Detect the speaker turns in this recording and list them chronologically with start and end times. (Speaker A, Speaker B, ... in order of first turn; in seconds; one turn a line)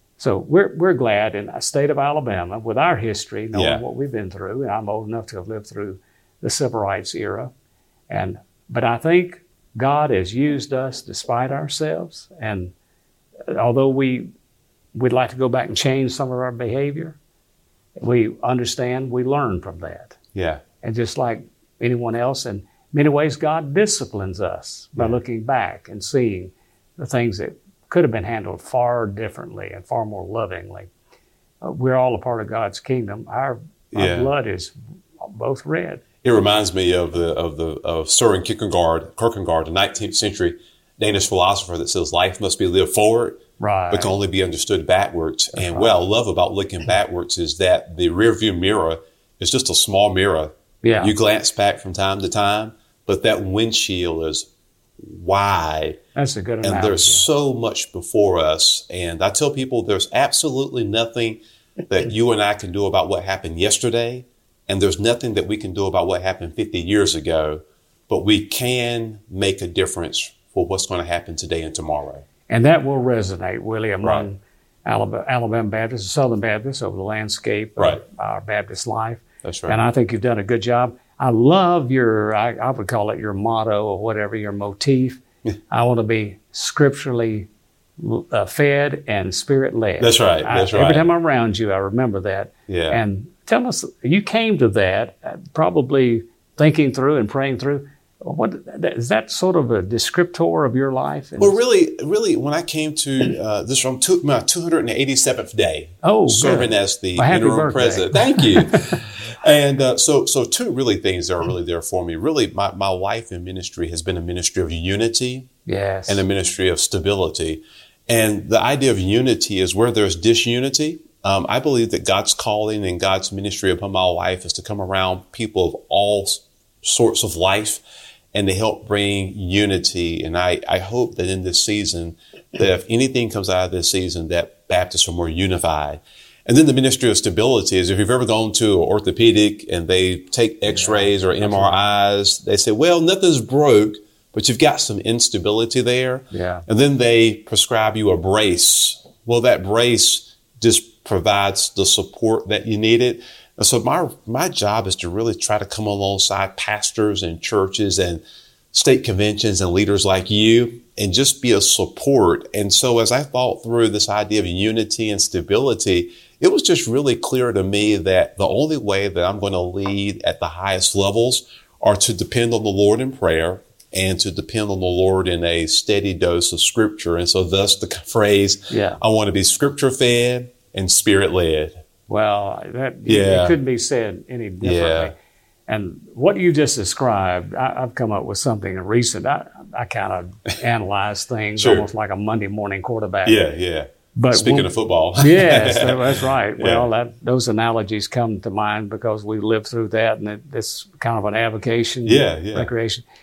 Speaker A: 0.2-7.5
Speaker B: 3.5-3.8
Speaker A: 8.1-12.7
Speaker A: 13.5-14.3
Speaker A: 14.9-17.2
Speaker A: 18.0-20.2
Speaker B: 20.3-20.6
Speaker A: 20.8-30.9
Speaker A: 31.6-36.0
Speaker B: 33.9-34.3
Speaker B: 36.2-43.4
Speaker A: 43.6-44.1
Speaker B: 43.9-54.5
Speaker A: 45.5-45.9
Speaker A: 50.8-51.1
Speaker B: 55.0-56.0
Speaker A: 56.1-57.3
Speaker B: 56.6-72.2
Speaker A: 72.5-87.5
Speaker B: 79.4-79.8
Speaker A: 88.0-101.6
Speaker B: 90.0-91.0
Speaker B: 92.7-93.0
Speaker B: 101.4-115.5
Speaker A: 106.0-108.7
Speaker A: 115.7-116.2
Speaker B: 116.1-127.8
Speaker B: 128.3-158.2
Speaker A: 140.7-141.8
Speaker A: 146.3-146.7
Speaker B: 158.7-181.8
Speaker A: 178.7-179.0
Speaker A: 182.1-185.1
Speaker B: 183.1-183.6
Speaker B: 184.6-185.1
Speaker A: 185.7-193.4
Speaker B: 191.6-191.9
Speaker B: 193.2-196.9
Speaker A: 194.1-203.0
Speaker B: 202.0-202.7